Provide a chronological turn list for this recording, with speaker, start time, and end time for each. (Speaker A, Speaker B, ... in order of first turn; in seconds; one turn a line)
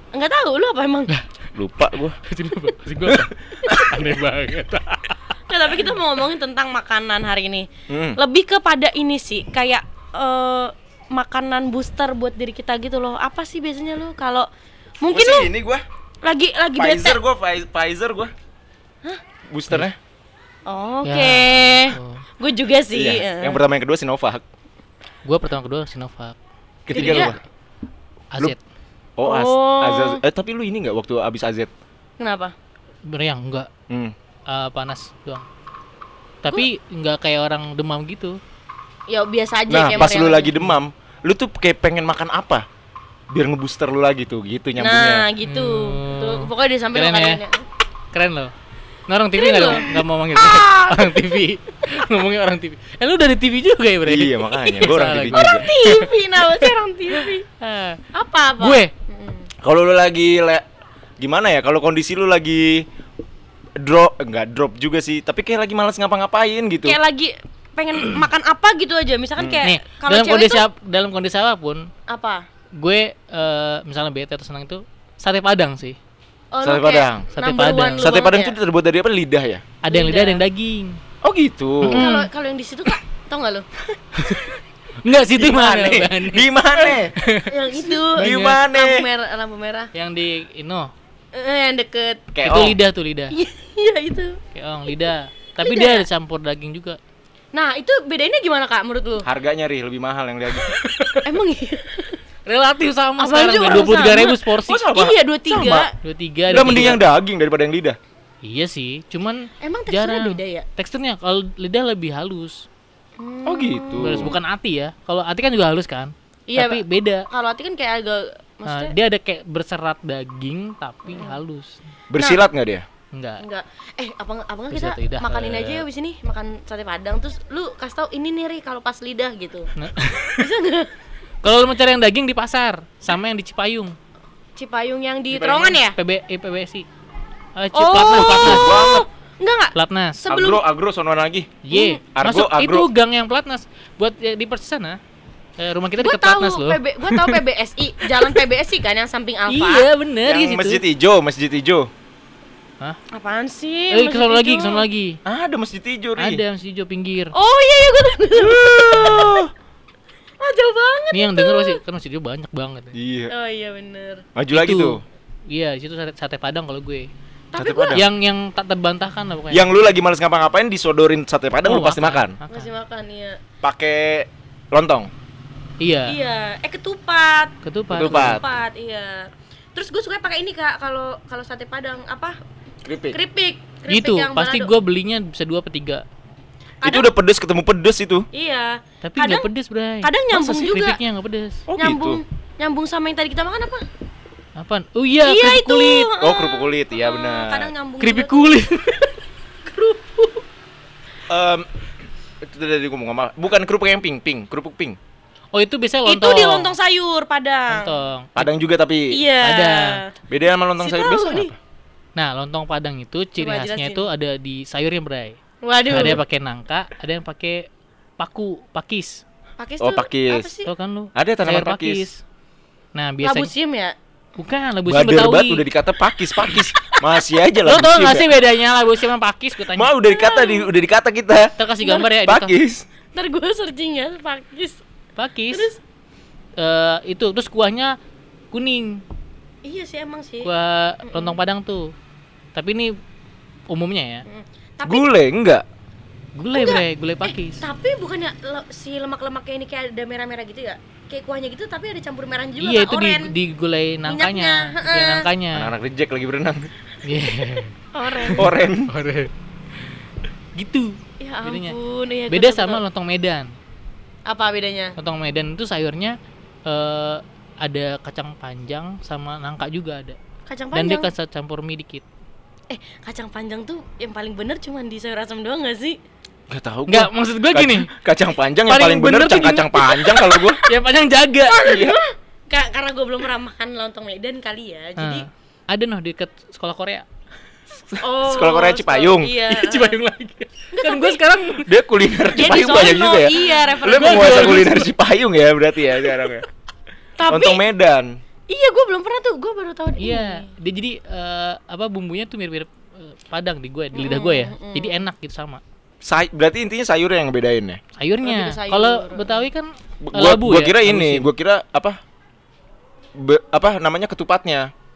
Speaker A: 0.1-1.1
Speaker B: 1.5-2.2
Speaker C: 2.2-5.3
Speaker B: 3.1-4.0
Speaker A: 5.5-14.5
Speaker B: 7.9-8.2
Speaker A: 15.0-15.5
Speaker B: 15.1-15.8
Speaker A: 16.2-17.2
Speaker B: 16.8-18.3
Speaker B: 19.5-19.9
Speaker A: 20.7-23.6
Speaker C: 21.0-22.2
Speaker B: 22.9-24.4
Speaker C: 25.2-26.4
Speaker B: 26.9-27.4
Speaker C: 26.9-27.4
Speaker A: 26.9-27.3
Speaker C: 28.3-28.6
Speaker B: 29.2-31.7
Speaker A: 29.2-30.2
Speaker A: 32.2-32.5
Speaker C: 33.0-33.7
Speaker C: 34.5-35.5
Speaker C: 36.4-38.4
Speaker A: 39.1-40.5
Speaker B: 39.7-42.6
Speaker C: 39.9-40.8
Speaker B: 43.3-45.2
Speaker A: 44.8-47.7
Speaker C: 45.4-47.4
Speaker C: 48.1-48.5
Speaker C: 49.1-56.1
Speaker A: 49.4-51.3
Speaker B: 54.0-55.7
Speaker A: 54.6-57.4
Speaker C: 57.1-58.0
Speaker A: 58.1-59.5
Speaker C: 58.6-58.9
Speaker B: 59.6-60.6
Speaker B: 61.2-62.8
Speaker B: 63.8-67.0
Speaker A: 66.8-70.6
Speaker B: 69.4-69.6
Speaker C: 69.6-71.9
Speaker A: 72.1-72.4
Speaker C: 72.8-76.0
Speaker A: 76.5-78.6
Speaker B: 76.6-77.3
Speaker C: 77.3-78.1
Speaker B: 78.0-79.7
Speaker C: 79.8-81.0
Speaker A: 79.9-80.4
Speaker B: 81.2-82.1
Speaker C: 81.8-82.3
Speaker A: 81.9-83.7
Speaker C: 84.2-86.5
Speaker B: 85.3-87.1
Speaker C: 87.2-88.6
Speaker A: 87.5-89.9
Speaker B: 88.2-89.0
Speaker C: 89.9-90.9
Speaker A: 91.3-92.3
Speaker B: 92.3-92.8
Speaker C: 92.4-93.3
Speaker A: 93.3-94.4
Speaker C: 94.5-97.0
Speaker A: 95.6-96.1
Speaker A: 97.5-99.2
Speaker B: 99.2-100.7
Speaker C: 100.8-101.2
Speaker A: 101.2-102.2
Speaker C: 102.5-104.9
Speaker A: 103.2-105.9
Speaker B: 104.6-105.2
Speaker C: 105.5-107.0
Speaker B: 106.5-108.0
Speaker C: 108.4-112.6
Speaker A: 109.6-110.7
Speaker A: 113.2-114.3
Speaker B: 113.5-114.3
Speaker C: 114.0-117.2
Speaker A: 116.5-118.9
Speaker C: 118.7-121.8
Speaker A: 121.1-121.4
Speaker B: 122.1-122.8
Speaker A: 122.1-122.4
Speaker C: 123.1-123.4
Speaker A: 123.4-129.7
Speaker C: 124.7-125.8
Speaker C: 129.8-130.4
Speaker A: 130.4-130.9
Speaker C: 131.4-133.9
Speaker A: 134.6-135.9
Speaker B: 135.3-135.8
Speaker C: 135.9-136.8
Speaker C: 137.5-138.8
Speaker A: 137.7-140.6
Speaker B: 138.0-139.0
Speaker C: 139.7-140.2
Speaker B: 140.3-142.9
Speaker C: 141.6-145.0
Speaker A: 141.7-142.0
Speaker C: 145.6-147.4
Speaker A: 146.0-149.9
Speaker C: 149.5-150.8
Speaker B: 150.2-151.9
Speaker A: 153.1-154.8
Speaker C: 153.9-155.2
Speaker B: 155.2-156.4
Speaker C: 156.2-157.3
Speaker A: 157.3-159.4
Speaker B: 158.3-159.5
Speaker A: 160.4-161.8
Speaker C: 161.1-162.9
Speaker B: 162.9-163.3
Speaker A: 163.3-164.2
Speaker B: 164.3-165.0
Speaker C: 164.5-167.1
Speaker A: 167.5-168.0
Speaker B: 167.6-168.0
Speaker C: 167.9-169.8
Speaker B: 169.5-172.4
Speaker C: 171.6-172.7
Speaker A: 172.5-173.4
Speaker B: 173.6-175.1
Speaker C: 175.8-176.2
Speaker A: 176.1-182.3
Speaker C: 177.6-178.4
Speaker B: 177.9-178.4
Speaker B: 182.8-183.2
Speaker A: 183.1-184.7
Speaker C: 183.9-186.0
Speaker A: 186.8-187.1
Speaker B: 186.8-188.3
Speaker A: 188.3-189.5
Speaker C: 189.0-191.6
Speaker A: 190.0-191.0
Speaker B: 191.7-192.2
Speaker A: 191.8-193.8
Speaker C: 194.6-196.1
Speaker A: 195.2-198.6
Speaker B: 196.2-197.7
Speaker C: 198.0-199.1
Speaker C: 199.8-200.3
Speaker B: 201.3-201.7
Speaker B: 202.4-205.0
Speaker C: 205.5-206.7
Speaker A: 206.1-207.9
Speaker C: 207.7-208.5
Speaker B: 208.3-209.2
Speaker A: 209.1-210.1
Speaker C: 209.4-210.0
Speaker B: 210.3-211.6
Speaker A: 210.8-211.5
Speaker C: 212.2-215.4
Speaker A: 213.4-214.1
Speaker A: 215.6-216.2
Speaker C: 215.9-219.2
Speaker A: 219.6-220.7
Speaker B: 219.8-220.5
Speaker C: 220.7-222.2
Speaker B: 221.1-222.1
Speaker C: 222.9-223.5
Speaker A: 223.2-223.9
Speaker C: 224.4-225.7
Speaker B: 224.8-228.3
Speaker C: 226.3-226.7
Speaker C: 227.6-229.9
Speaker B: 229.7-231.5
Speaker A: 230.1-230.7
Speaker C: 231.6-232.5
Speaker A: 231.8-232.1
Speaker B: 232.2-232.8
Speaker A: 233.1-234.8
Speaker C: 235.2-235.7
Speaker A: 235.5-235.8
Speaker C: 236.6-237.9
Speaker C: 238.5-239.0
Speaker A: 239.6-240.5
Speaker C: 240.4-241.9
Speaker A: 241.0-241.4
Speaker C: 242.5-242.9
Speaker C: 243.7-244.2
Speaker A: 244.3-245.1
Speaker B: 244.8-245.7
Speaker C: 246.3-247.6
Speaker A: 246.5-253.3
Speaker C: 252.6-255.7
Speaker A: 254.1-255.3
Speaker B: 255.5-256.7
Speaker C: 257.0-259.3
Speaker A: 257.9-258.5
Speaker B: 258.4-258.9
Speaker C: 260.5-261.8
Speaker A: 261.2-262.8
Speaker C: 262.3-263.5
Speaker A: 264.2-264.9
Speaker C: 265.0-266.1
Speaker C: 266.7-270.2
Speaker A: 270.5-271.1
Speaker C: 270.7-272.0
Speaker A: 272.7-276.0
Speaker B: 276.5-280.6
Speaker C: 276.9-277.9
Speaker C: 278.6-281.9
Speaker A: 281.5-285.3
Speaker B: 281.6-282.0
Speaker C: 285.0-287.1
Speaker B: 288.0-289.3
Speaker A: 288.0-290.0
Speaker C: 289.5-291.7
Speaker A: 290.7-291.2
Speaker B: 291.6-296.4
Speaker A: 292.3-294.6
Speaker C: 293.8-294.9
Speaker C: 295.9-296.4
Speaker A: 297.2-297.6
Speaker B: 297.3-298.1
Speaker A: 298.5-300.5
Speaker C: 300.0-305.6
Speaker A: 303.9-305.1
Speaker B: 306.0-307.8
Speaker C: 307.9-311.3
Speaker A: 308.2-309.5
Speaker B: 310.0-312.0
Speaker B: 313.1-314.7